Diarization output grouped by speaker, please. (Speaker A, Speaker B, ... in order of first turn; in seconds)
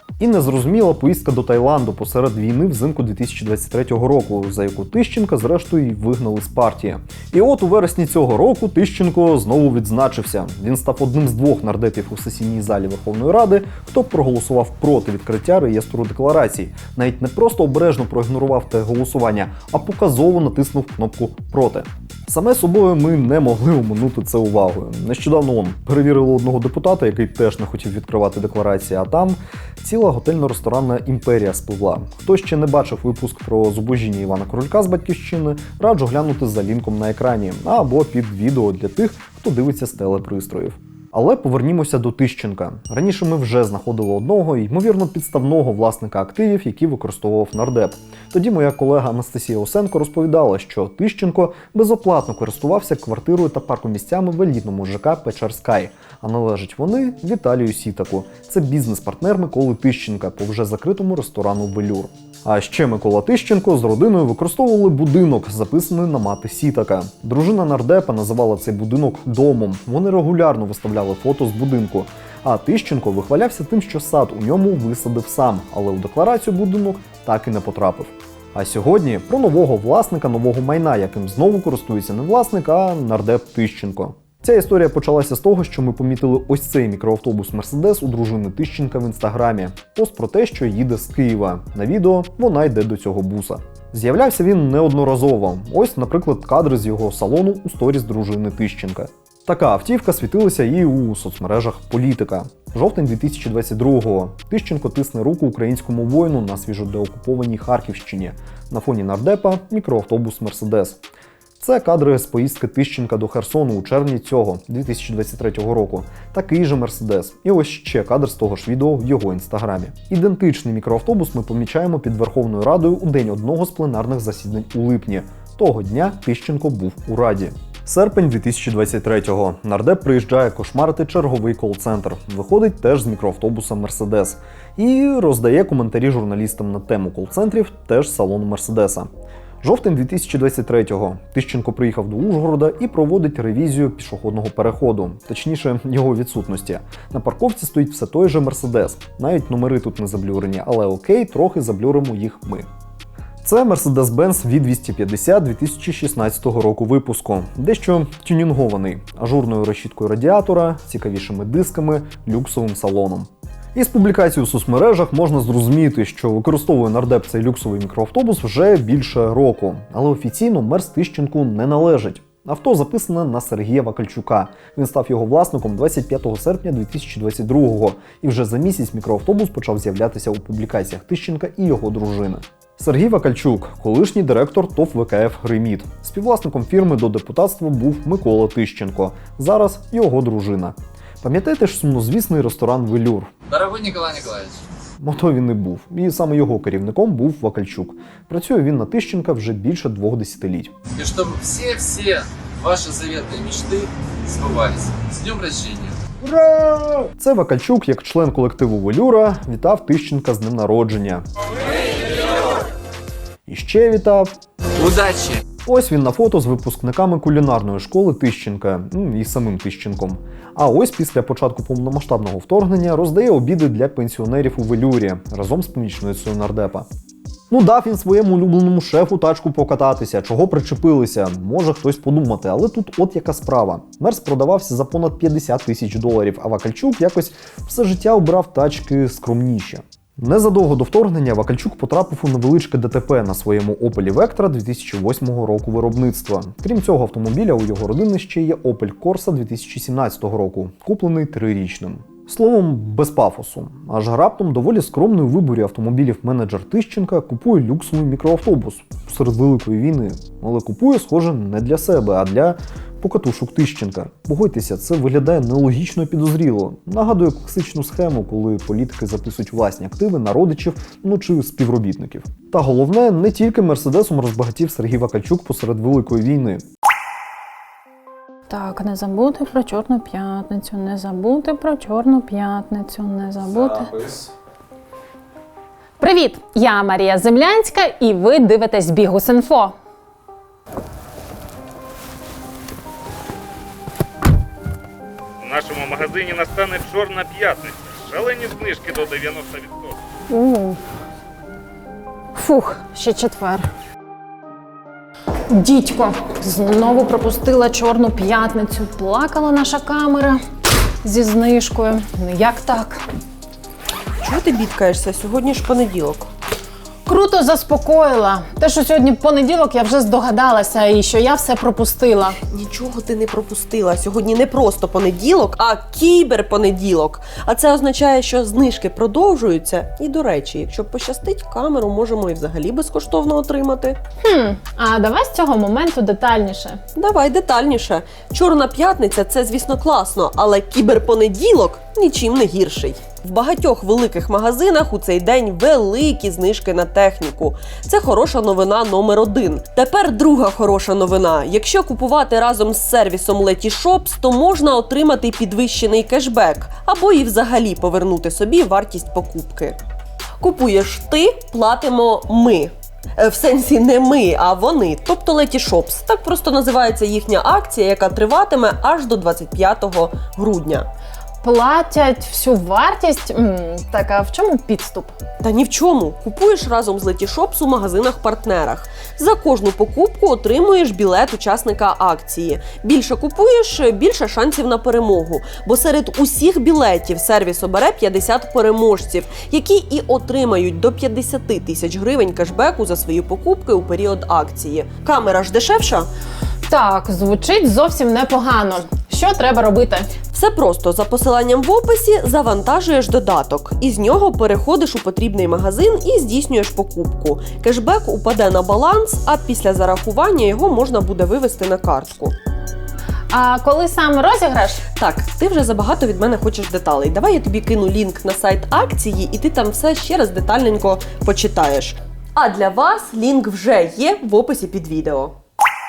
Speaker A: 0.2-111.0, 111.6-139.1, 139.6-152.7, 153.4-193.3, 195.0-200.7, 206.8-211.2, 213.5-214.3, 215.7-226.9, 227.5-276.6
Speaker B: 193.5-194.6, 200.9-206.0, 214.8-215.4
Speaker C: 278.5-283.9, 286.0-289.7, 300.3-300.8, 302.4-303.7, 305.5-310.4, 311.0-313.0, 317.1-322.4, 334.2-336.8, 371.4-375.1, 396.7-400.2, 413.3-414.9
Speaker D: 295.4-300.0
Speaker E: 314.2-316.3, 322.4-334.0, 336.9-359.8, 360.4-370.9, 375.4-396.1, 400.3-412.4, 414.9-425.3